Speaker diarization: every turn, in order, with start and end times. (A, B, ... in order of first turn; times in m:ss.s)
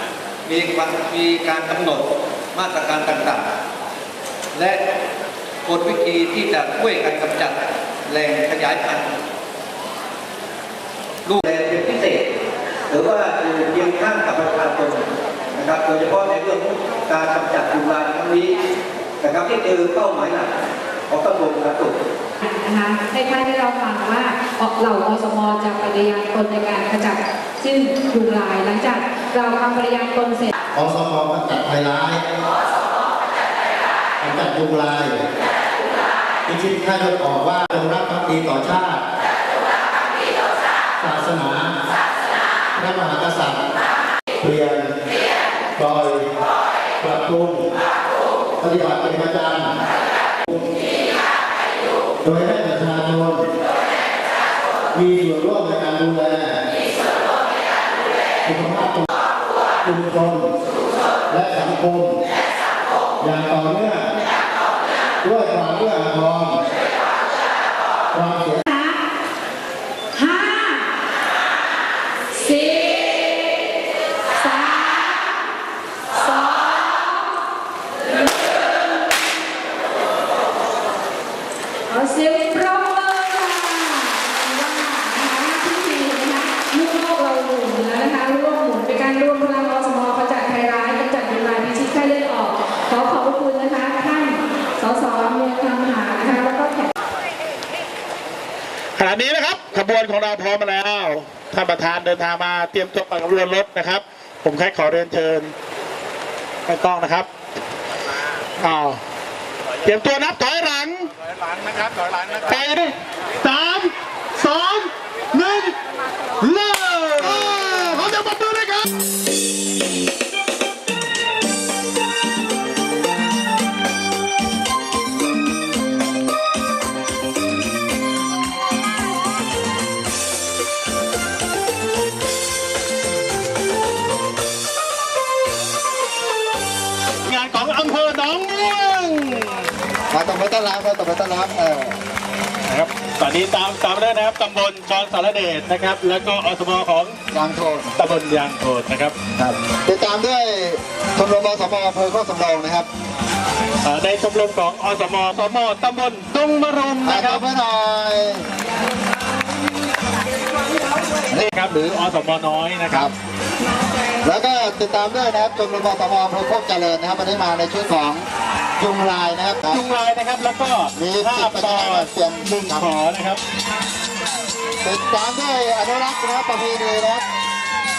0:00.4-0:03.4 A
0:04.5-0:04.8 A
0:05.6-0:09.1 A
0:11.2-0:12.2 A
0:12.9-0:18.5 A
0:19.2-0:20.5 A
0:21.1-0:22.0 A
0:22.4-0:30.5 B
0:30.7-0:32.2 C
0:34.2-0:35.2 C
0:36.5-0:39.0 C
0:41.0-0:41.8 C
0:42.7-0:43.6 C
0:44.4-0:44.9 C
0:45.8-0:46.2 C
0:47.0-0:47.7 C
0:48.6-0:49.7 C
0:52.2-0:53.5 C
0:54.9-0:56.6 C
0:58.4-0:59.1 C
0:59.8-1:00.5 C
1:01.3-1:02.2 C
1:03.2-1:04.1 C
1:05.2-1:06.6 C
1:08.1-1:08.6 C
1:08.7-1:09.0 B
1:10.1-1:10.9 B
1:12.3-1:13.5 B
1:14.3-1:15.2 B
1:16.1-1:17.3 B
1:18.1-1:18.9 B
1:21.9-1:36.9 B
1:39.0-1:45.5 D
1:46.7-1:47.3 D
1:48.6-1:49.0 D
1:49.8-1:51.1 D
1:52.5-1:55.7 D
1:56.4-1:58.8 D
2:17.2-2:19.6 D
2:20.1-2:22.0 C
2:22.7-2:27.2 D
2:27.3-2:27.9 C
2:28.0-2:29.1 D
2:29.4-2:32.9 C
2:33.8-2:37.4 D
2:37.0-2:38.4 C
2:41.4-2:43.1 D
2:44.2-2:48.2 C
2:48.8-2:49.8 C
2:49.7-2:53.4 D
2:51.0-2:52.9 C
2:54.8-2:57.2 C